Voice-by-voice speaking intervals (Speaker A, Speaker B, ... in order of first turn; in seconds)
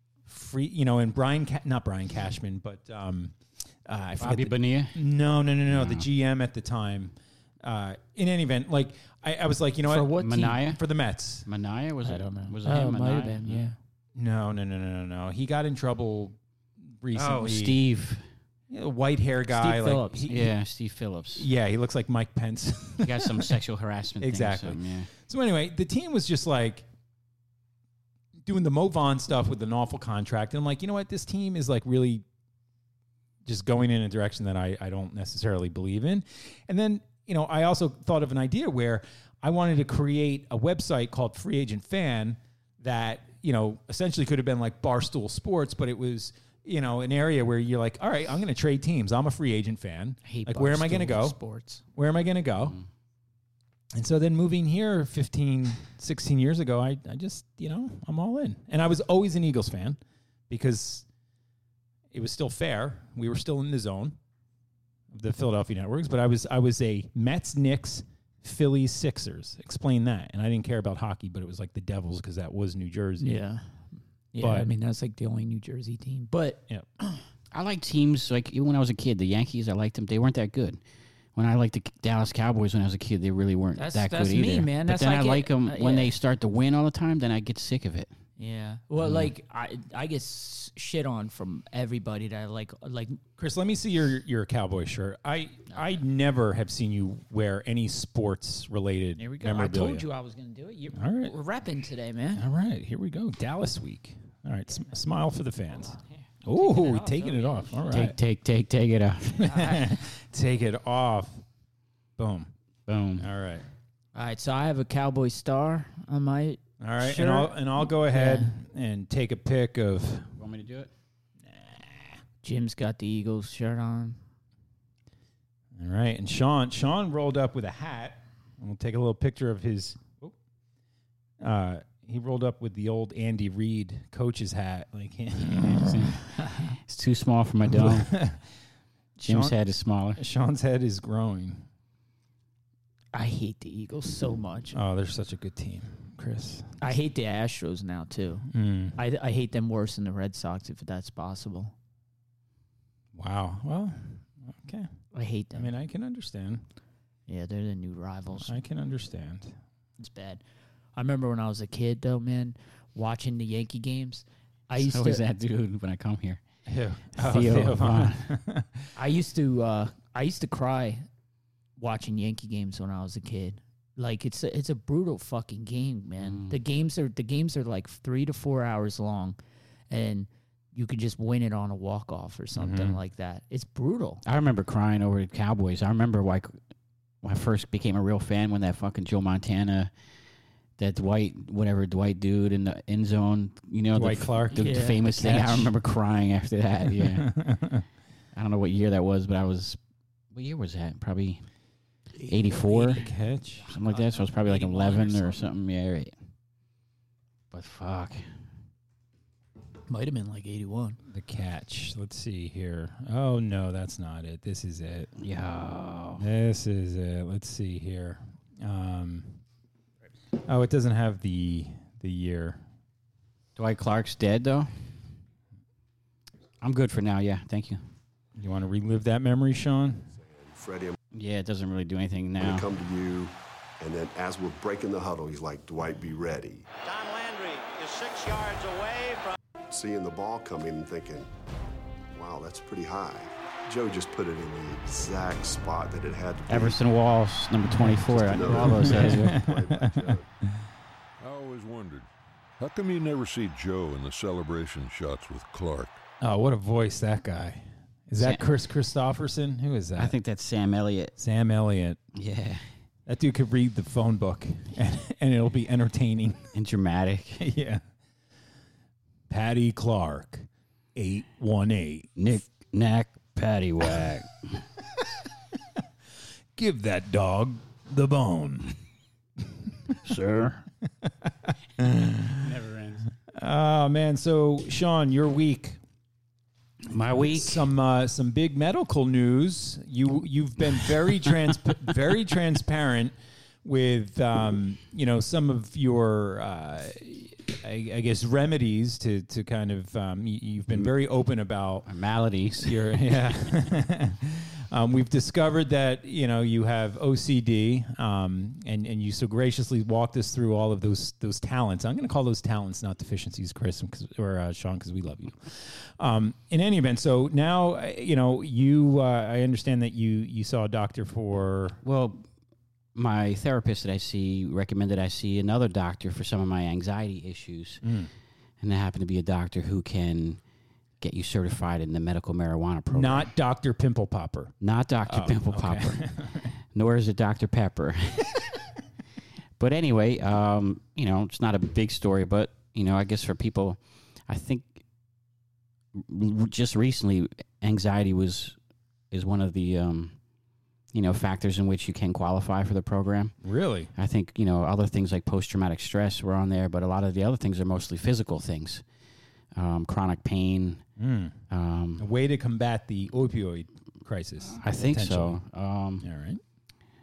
Speaker A: 0.3-11.5, 14.2-17.8, 18.7-20.5, 21.4-23.6, 24.2-26.9, 28.4-32.2, 33.5-51.4, 52.0-52.8, 53.9-60.0, 60.5-61.1, 62.1-64.2, 65.1-73.4, 74.4-74.7, 93.4-100.1, 101.0-101.3, 102.3-108.2, 109.4-111.4, 112.2-112.5, 113.2-113.7, 116.8-120.3, 121.5-122.2, 125.8-130.3, 131.4-136.2, 137.7-138.4, 139.2-139.6, 140.2-141.7, 144.7-146.7, 148.5-149.0, 153.2-154.9, 155.6-156.6, 158.4-159.6, 166.7-168.9, 182.6-183.0, 193.9-195.7, 196.9-197.8, 202.9-203.7, 211.1-215.1, 216.2-219.4, 220.4-222.6, 228.4-230.1, 247.7-250.2, 256.2-260.2, 261.2-262.0, 263.1-266.5, 267.4-267.8, 269.3-272.1, 276.6-278.8, 281.1-282.5, 283.3-285.8, 287.2-301.9, 302.6-321.8, 327.8-328.1, 332.9-336.5, 353.4-353.9, 361.0-361.4, 362.0-365.4, 366.0-366.4
Speaker B: 4.2-5.0, 5.7-6.1, 10.2-10.8, 11.5-13.7, 17.1-18.2, 20.3-21.5, 23.0-25.1, 77.5-80.8, 81.4-88.1, 107.9-109.5, 112.9-113.3, 120.4-120.9, 135.6-138.1, 139.2-140.2, 164.8-166.4, 167.2-168.2, 176.2-176.6, 184.2-186.6, 187.2-189.9, 190.8-197.3, 198.3-199.8, 200.3-201.4, 202.3-203.0, 203.7-206.1, 207.5-208.2, 215.2-216.2, 223.6-224.7, 226.6-227.8, 231.1-232.7, 246.5-249.5, 258.2-258.4, 260.0-261.2, 262.1-262.6, 266.6-267.4, 272.2-274.6, 280.0-280.6, 282.4-283.1, 286.9-287.7, 301.9-303.3, 321.8-322.2, 322.9-327.8, 328.6-330.4, 331.0-333.3, 334.6-338.5, 339.6-344.8, 345.9-348.6, 349.1-350.2, 350.9-353.4, 354.0-358.8, 359.6-360.8, 361.5-362.1, 364.6-366.1
Speaker C: 9.9-10.6, 12.1-13.8, 19.5-20.3, 50.2-51.8, 73.2-73.8, 74.3-77.2, 83.8-86.1, 88.4-93.2, 99.2-102.4, 106.5-108.1, 109.5-110.0, 114.2-118.5, 122.4-124.2, 143.1-144.8, 146.8-151.7, 155.1-155.7, 157.3-158.6, 160.0-160.4, 160.9-165.2, 169.0-171.1, 171.8-179.4, 179.9-184.2, 194.6-195.1, 202.2-203.1, 203.6-205.4, 209.9-211.0
Speaker D: 230.4-231.0, 232.4-236.7, 239.7-241.3, 242.1-246.8, 248.1-250.3
Speaker E: 236.8-239.4
Speaker F: 251.2-256.0